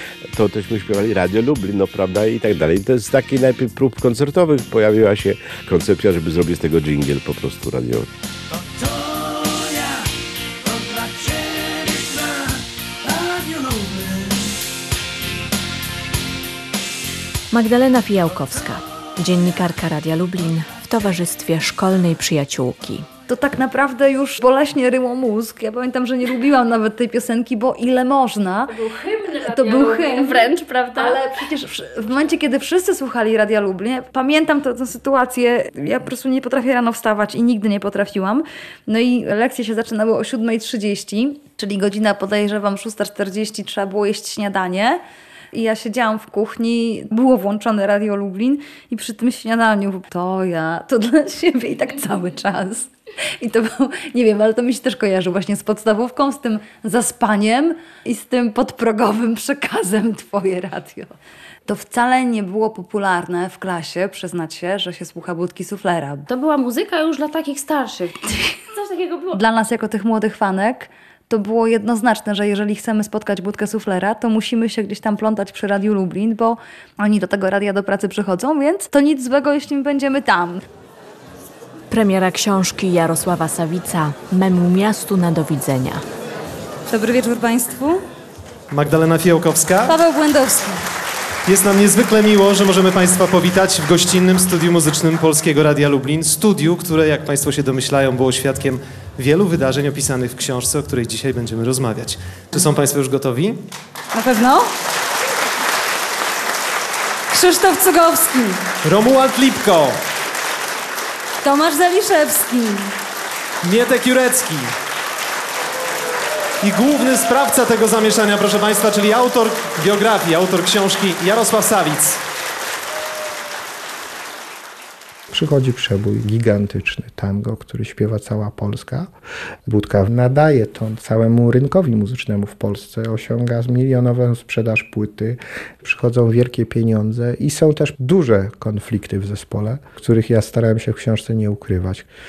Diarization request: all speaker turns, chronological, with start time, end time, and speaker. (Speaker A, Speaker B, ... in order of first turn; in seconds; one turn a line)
Speaker A: 0.3-8.1
Speaker B: 17.5-23.1
Speaker C: 23.3-61.1
Speaker D: 28.7-31.4
Speaker C: 61.7-66.3
Speaker D: 66.3-69.4
Speaker C: 69.3-80.6
Speaker B: 81.9-86.0
Speaker C: 86.9-88.0
Speaker E: 88.7-90.0
Speaker C: 89.9-90.8
Speaker E: 91.5-103.6
Speaker C: 104.1-104.7
Speaker C: 107.3-108.6
Speaker E: 108.8-110.0
Speaker C: 111.4-112.9
Speaker E: 113.6-114.7
Speaker E: 116.6-122.2
Speaker F: 125.3-129.1
Speaker F: 129.7-142.1